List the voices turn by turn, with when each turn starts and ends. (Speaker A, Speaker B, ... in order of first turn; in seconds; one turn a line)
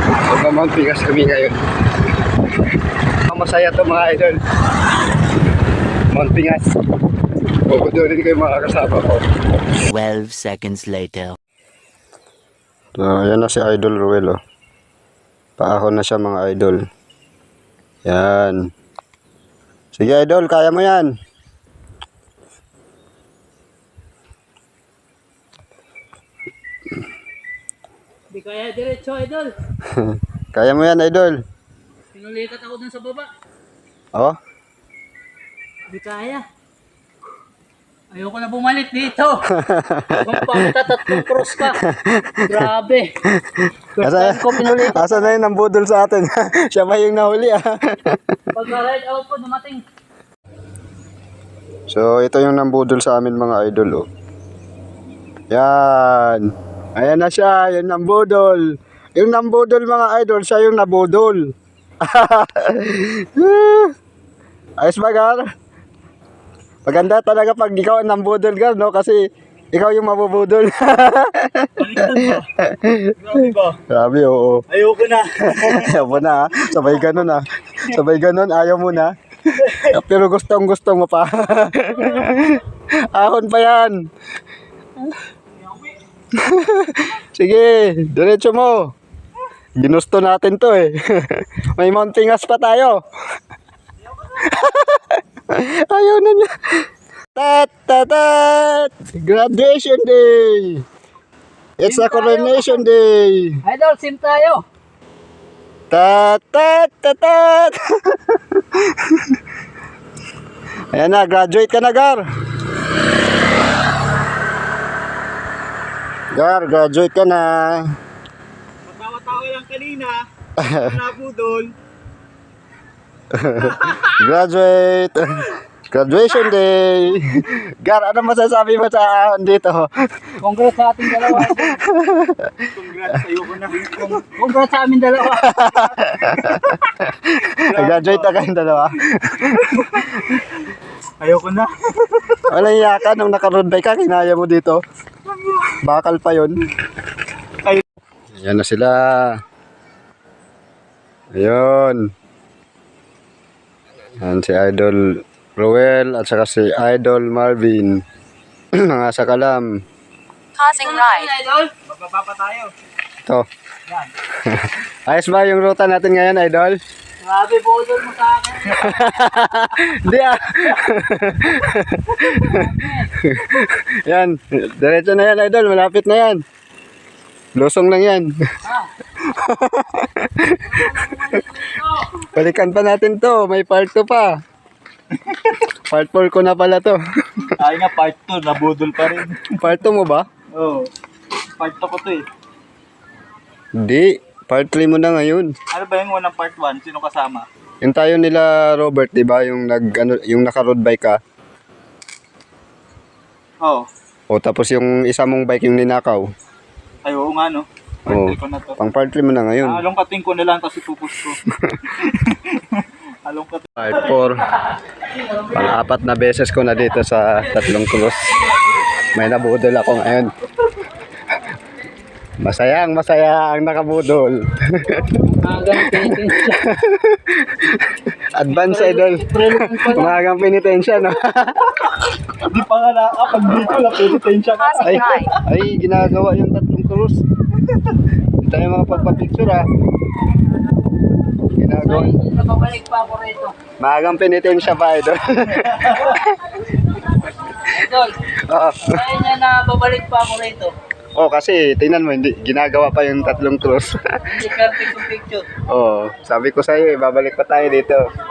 Speaker A: 0.3-1.6
Speaker A: 3.3-4.4
Speaker A: 6.1-6.7
Speaker A: 7.7-9.2
Speaker B: 9.9-11.4
Speaker A: 13.0-14.4
Speaker A: 15.6-16.8
Speaker A: 18.1-18.7
Speaker A: 19.9-21.1
Speaker C: 28.3-29.5
Speaker A: 29.9-31.4
Speaker C: 32.1-33.3
Speaker C: 35.9-36.5
Speaker C: 38.1-39.5
Speaker A: 39.5-40.7
Speaker C: 40.2-41.8
Speaker A: 41.8-42.7
Speaker C: 42.5-43.1
Speaker A: 43.3-48.2
Speaker C: 44.0-45.4
Speaker C: 48.5-49.8
Speaker A: 51.9-54.1
Speaker A: 55.5-63.9
Speaker A: 64.8-65.4
Speaker A: 66.9-69.2
Speaker A: 69.7-73.2
Speaker D: 71.8-72.5
Speaker D: 73.2-73.8
Speaker A: 73.9-74.7
Speaker D: 74.7-76.1
Speaker A: 75.4-79.1
Speaker D: 76.8-77.2
Speaker D: 79.6-79.8
Speaker A: 79.8-84.0
Speaker A: 86.3-88.9
Speaker A: 89.8-93.0
Speaker A: 94.3-100.8
Speaker A: 101.8-103.6
Speaker C: 101.8-102.8
Speaker C: 103.6-104.6
Speaker A: 105.9-109.4
Speaker A: 110.9-112.2
Speaker A: 116.3-118.0
Speaker D: 118.9-120.2
Speaker A: 120.6-120.9
Speaker D: 120.8-121.7
Speaker A: 123.3-129.9
Speaker C: 130.4-131.8
Speaker A: 131.4-132.7
Speaker D: 132.7-134.2
Speaker C: 134.3-135.6
Speaker A: 135.4-140.1
Speaker D: 137.7-138.3
Speaker D: 139.7-140.1
Speaker D: 141.2-142.8
Speaker A: 142.5-144.8
Speaker D: 145.5-145.7
Speaker A: 145.8-146.6
Speaker A: 148.3-149.4
Speaker A: 151.3-152.1
Speaker A: 154.2-158.0
Speaker A: 158.8-159.8
Speaker B: 160.6-161.3
Speaker C: 160.6-161.7
Speaker D: 161.9-162.7
Speaker A: 164.3-166.8
Speaker C: 167.2-169.2
Speaker A: 168.7-176.4
Speaker C: 172.4-173.1
Speaker A: 177.6-178.3
Speaker A: 179.2-181.4
Speaker C: 180.8-181.9
Speaker A: 182.3-184.3
Speaker D: 185.2-185.6
Speaker A: 185.9-187.5
Speaker D: 187.5-189.7
Speaker A: 189.6-190.3
Speaker D: 190.5-190.9
Speaker D: 191.6-192.2
Speaker A: 193.8-195.5
Speaker D: 195.7-197.5
Speaker A: 197.8-201.2
Speaker A: 204.3-206.3
Speaker D: 207.0-208.8
Speaker A: 208.1-209.8
Speaker D: 209.6-211.4
Speaker A: 211.5-211.8
Speaker D: 211.9-213.9
Speaker A: 213.8-214.5
Speaker A: 215.5-218.4
Speaker A: 219.1-220.3
Speaker A: 222.4-225.2
Speaker C: 225.4-226.7
Speaker A: 225.8-232.0
Speaker C: 228.5-230.2
Speaker D: 232.4-235.3
Speaker B: 234.6-235.3
Speaker A: 234.8-237.2
Speaker A: 238.4-239.7
Speaker A: 241.6-242.1
Speaker C: 241.8-243.5
Speaker A: 243.8-246.4
Speaker C: 247.6-248.2
Speaker A: 248.5-249.0
Speaker C: 248.8-250.7
Speaker A: 251.2-254.0
Speaker C: 254.3-255.5
Speaker A: 255.7-258.0